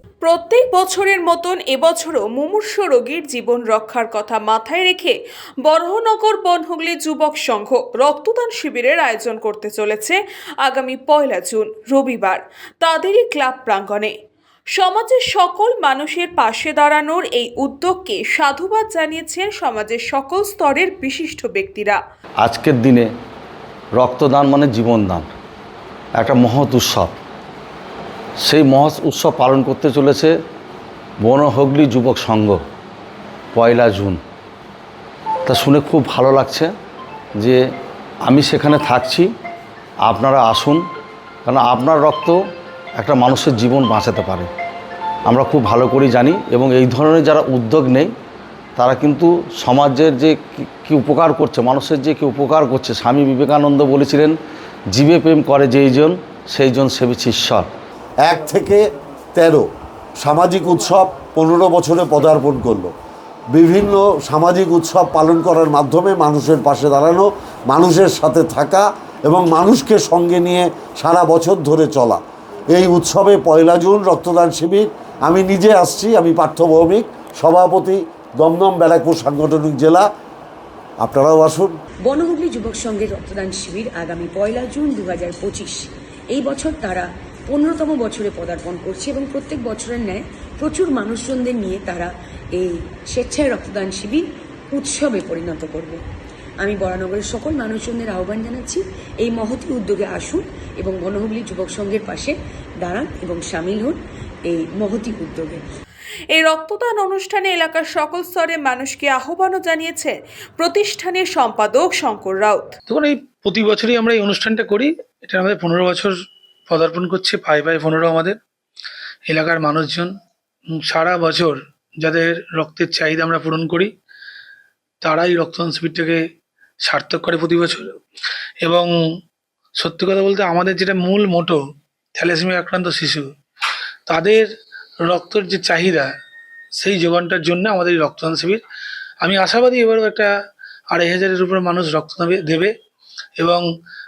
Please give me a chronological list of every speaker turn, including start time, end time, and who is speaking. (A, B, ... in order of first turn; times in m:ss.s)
0:00.2-0:14.1 A
0:14.8-0:22.0 A
0:22.4-0:23.1 B
0:24.0-0:25.3 B
0:26.2-0:27.2 B
0:28.4-0:30.3 B
0:31.2-0:32.6 B
0:33.5-0:34.2 B
0:35.5-0:36.7 B
0:38.2-0:39.3 B
0:40.0-0:40.8 B
0:41.4-0:42.4 B
0:43.0-0:44.5 B
0:45.3-0:48.1 B
0:48.8-0:54.4 B
0:54.9-0:57.7 B
0:58.2-0:58.8 C
0:59.3-0:59.7 C
1:00.2-1:02.9 C
1:03.5-1:20.1 C
1:21.0-1:21.8 C
1:22.1-1:36.0 D
1:36.6-1:45.6 D
1:46.3-1:52.8 A
1:52.9-1:56.1 E
1:56.7-1:58.4 E
1:59.3-2:00.1 E
2:00.7-2:03.9 E
2:05.0-2:06.2 E
2:06.8-2:07.9 E
2:08.6-2:08.9 E
2:09.8-2:11.6 E
2:12.2-2:13.3 E
2:14.1-2:14.5 E
2:15.0-2:16.1 E
2:16.8-2:18.6 E
2:19.2-2:20.3 E
2:20.9-2:22.7 E
2:23.4-2:23.6 E